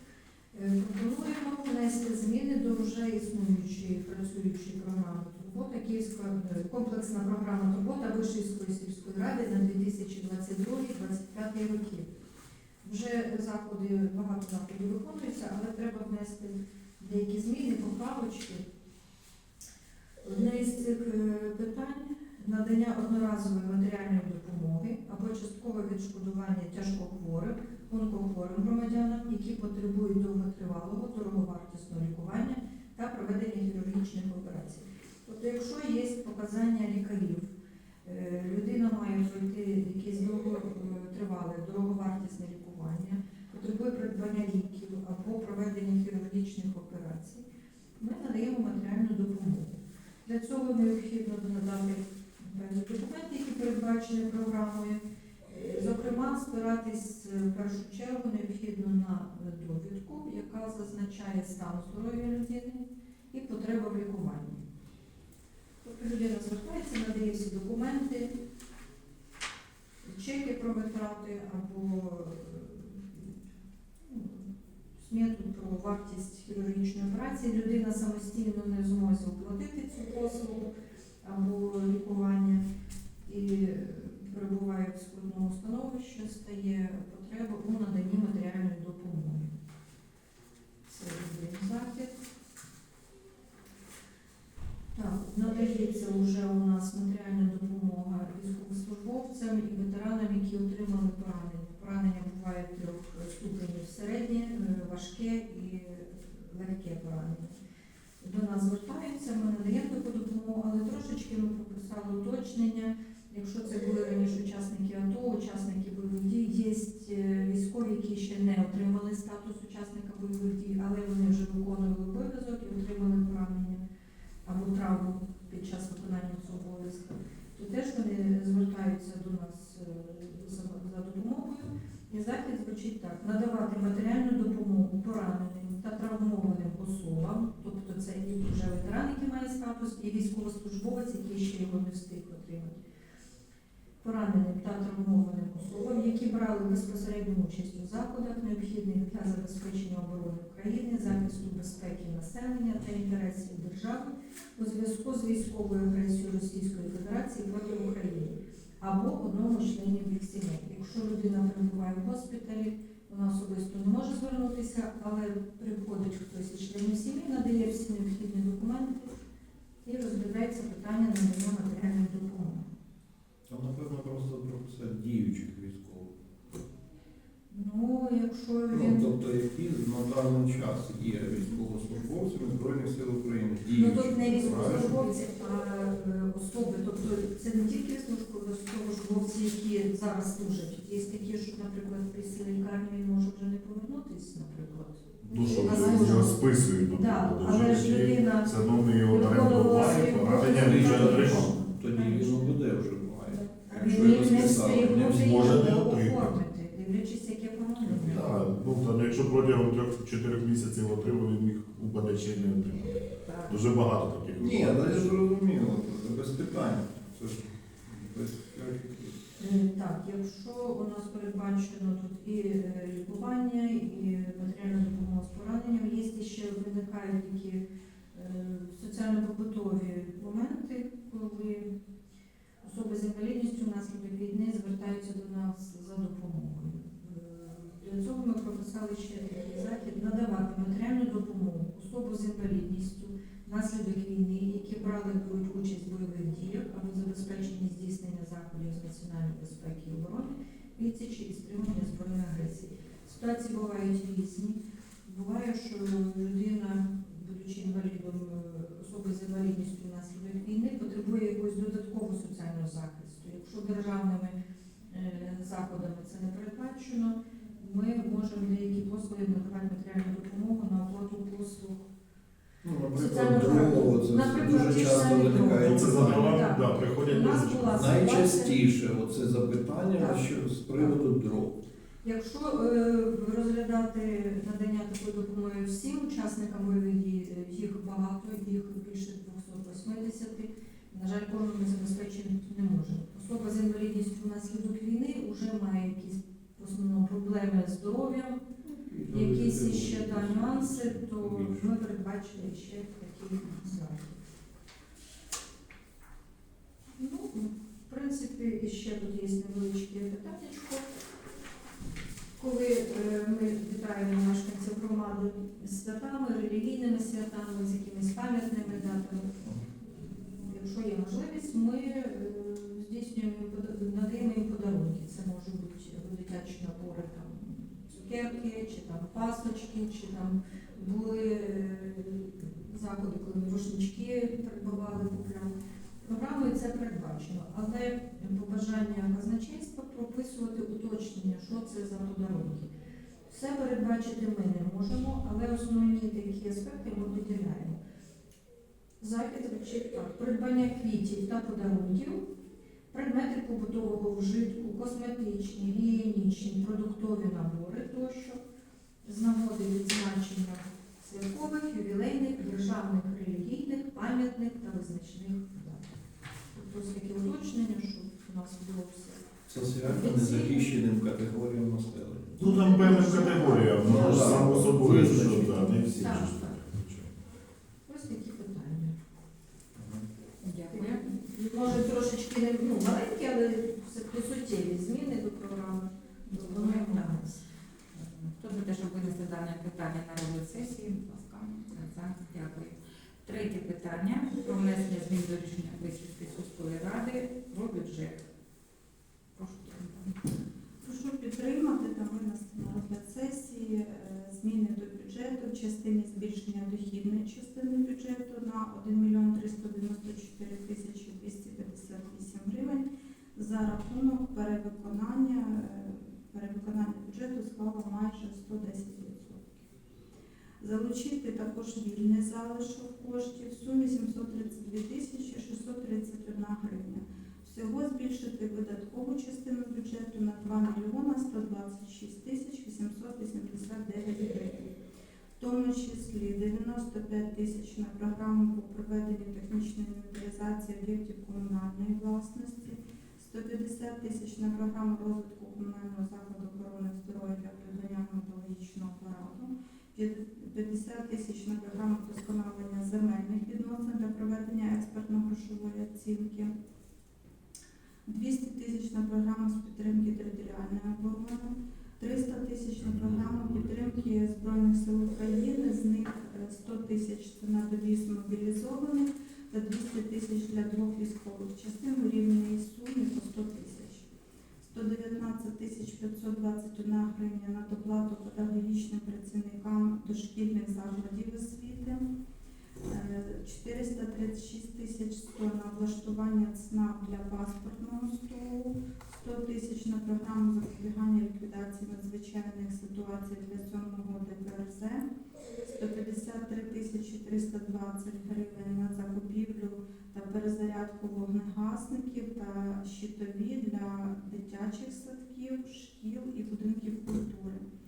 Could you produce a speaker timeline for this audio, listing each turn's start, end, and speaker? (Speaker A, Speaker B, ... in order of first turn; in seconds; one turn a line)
Speaker A: 0.5-12.1
Speaker A: 12.8-18.7
Speaker A: 20.2-47.5
Speaker A: 48.0-64.6
Speaker A: 65.8-68.3
Speaker A: 70.0-73.4
Speaker A: 74.1-80.7
Speaker A: 81.2-82.6
Speaker A: 83.2-89.5
Speaker A: 90.9-92.2
Speaker A: 94.9-107.6
Speaker A: 108.2-123.8
Speaker A: 124.4-142.8
Speaker A: 144.0-169.1
Speaker A: 169.8-172.7
Speaker B: 173.5-176.1
Speaker A: 177.5-179.1
Speaker B: 178.7-185.1
Speaker A: 183.7-201.7
Speaker C: 195.2-201.5
Speaker B: 200.4-205.6
Speaker D: 203.5-204.1
Speaker A: 203.7-208.4
Speaker C: 204.9-206.3
Speaker C: 207.8-215.2
Speaker E: 213.2-213.5
Speaker B: 214.4-219.2
Speaker A: 219.4-231.7
Speaker A: 232.6-264.4
Speaker A: 264.9-271.9
Speaker B: 272.6-276.4
Speaker A: 272.9-278.6
Speaker C: 275.5-278.1
Speaker B: 277.7-281.6
Speaker A: 280.0-280.2
Speaker A: 282.0-298.4
Speaker B: 298.6-301.7
Speaker A: 299.1-304.2
Speaker A: 307.0-310.9
Speaker A: 312.4-319.3
Speaker A: 320.4-342.7
Speaker A: 343.3-347.8
Speaker A: 349.0-352.3
Speaker A: 352.9-358.4
Speaker A: 359.0-365.9
Speaker A: 366.5-369.2
Speaker B: 369.5-372.8
Speaker A: 369.8-370.7
Speaker C: 372.4-377.1
Speaker A: 372.4-374.9
Speaker B: 373.7-375.8
Speaker A: 375.7-376.6
Speaker A: 377.9-378.9
Speaker B: 379.8-380.1
Speaker E: 380.4-381.1
Speaker A: 380.7-387.4
Speaker E: 386.3-387.2
Speaker E: 387.9-398.2
Speaker E: 399.4-400.1
Speaker D: 400.8-419.5
Speaker D: 420.6-434.7
Speaker D: 435.4-456.5
Speaker D: 458.1-474.1
Speaker C: 462.8-464.0
Speaker D: 474.7-482.0
Speaker D: 482.9-495.0
Speaker D: 495.6-507.6